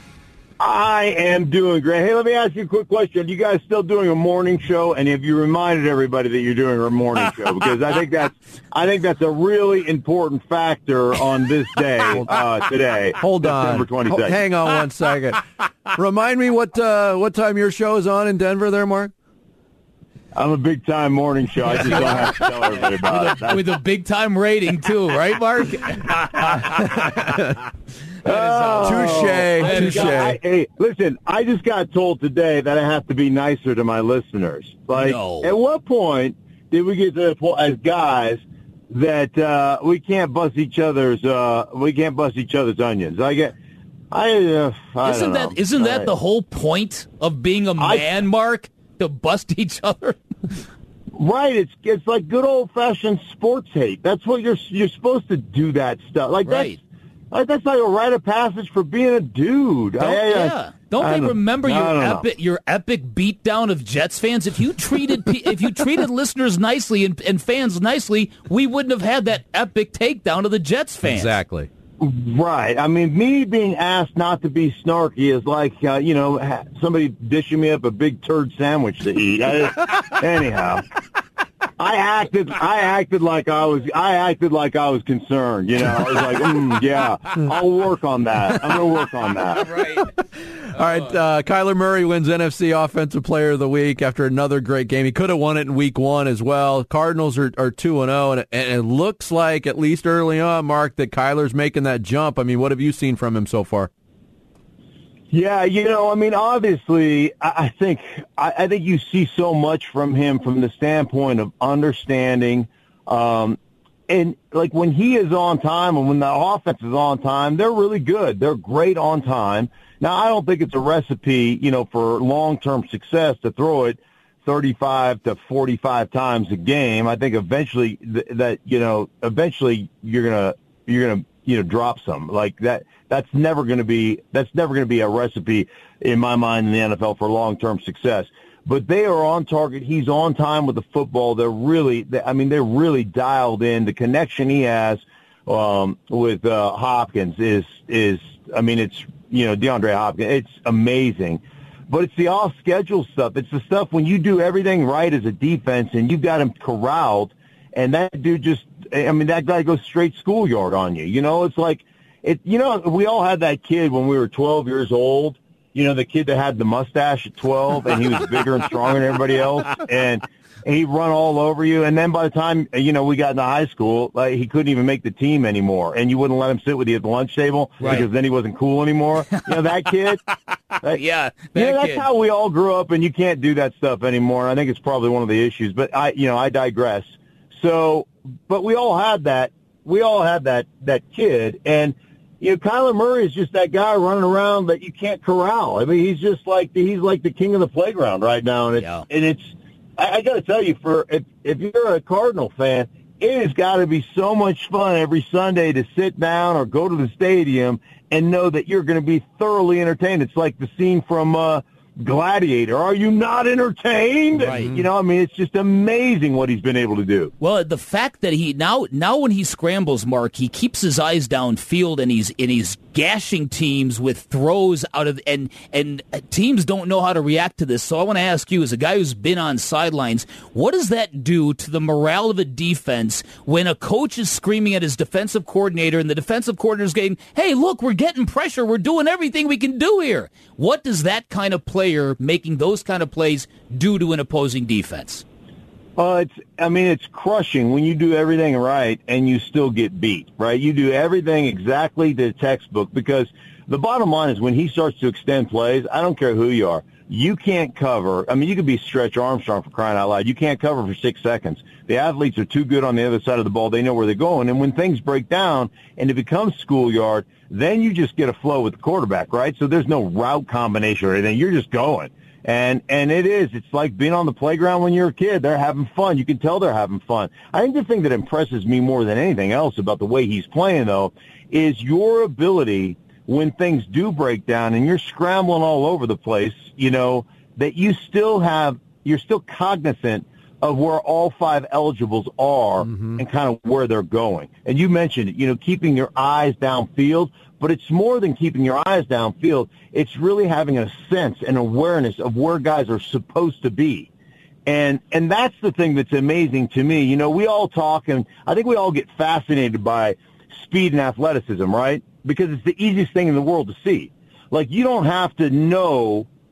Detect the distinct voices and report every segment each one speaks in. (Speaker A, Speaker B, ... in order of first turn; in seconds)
Speaker A: 0.6-14.4, 20.3-23.6, 28.2-43.5, 44.1-46.1, 47.8-48.1, 51.1-56.8, 57.3-62.2, 72.0-80.8, 81.8-89.8, 105.3-113.6, 114.1-180.2, 181.5-217.3, 246.0-304.1, 304.6-316.3
Speaker B: 13.2-15.4, 15.9-19.1, 27.0-27.5, 28.8-30.4, 71.0-71.7, 90.6-103.9, 292.8-293.2
Speaker C: 21.6-27.1, 28.2-30.3, 34.9-35.5, 45.0-50.2, 56.4-56.8, 60.0-71.3, 89.5-90.1, 177.8-178.1, 180.8-182.0, 198.8-199.0, 214.4-214.7, 217.4-245.2